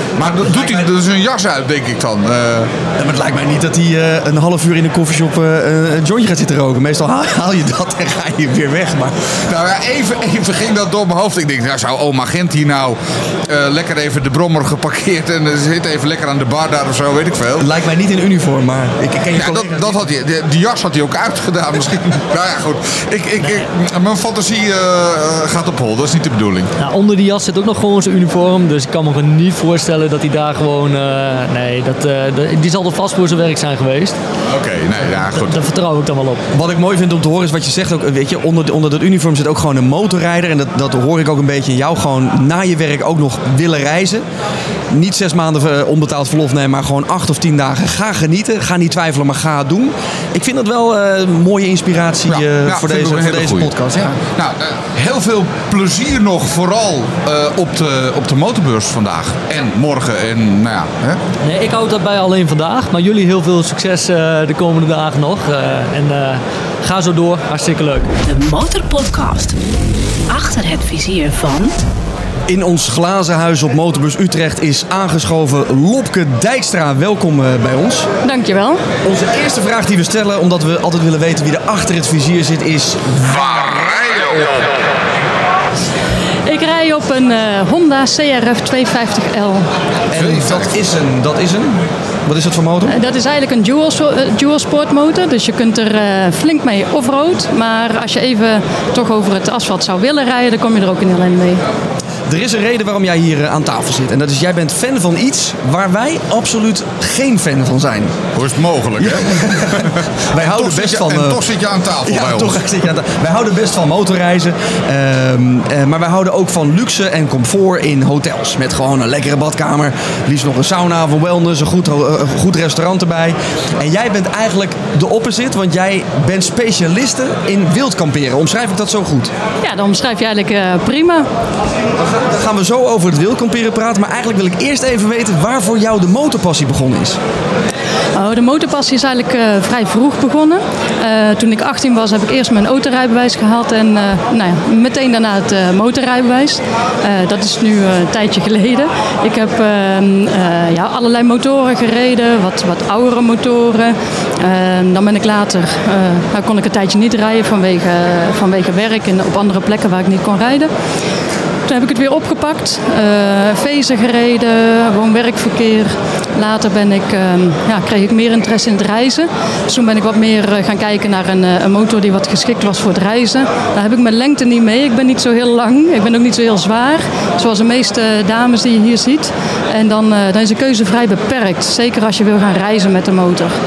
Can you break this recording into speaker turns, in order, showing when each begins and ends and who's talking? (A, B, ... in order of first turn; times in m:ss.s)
0:00.2-0:02.7 A
0:00.4-0:00.8 B
0:03.0-0:09.1 B
0:09.5-0:17.7 A
0:17.6-0:20.0 B
0:19.3-0:26.7 A
0:26.8-0:34.2 C
0:34.4-0:35.5 A
0:35.3-0:36.4 C
0:36.5-0:44.2 B
0:44.9-0:54.2 B
0:52.3-0:53.7 A
0:54.4-1:01.2 A
1:01.4-1:08.1 C
1:08.2-1:09.6 D
1:10.3-1:11.7 D
1:12.5-1:18.1 B
1:18.2-1:18.8 E
1:19.0-1:24.6 B
1:26.4-1:29.7 E
1:30.1-1:32.9 B
1:30.1-1:30.7 A
1:32.9-1:41.6 E
1:42.3-1:48.2 B
1:48.4-1:52.6 A
1:49.0-1:51.4 B
1:52.0-2:09.3 B
2:09.6-2:11.3 E
2:12.0-2:17.2 B
2:18.1-2:40.7 E
2:41.6-3:03.5 E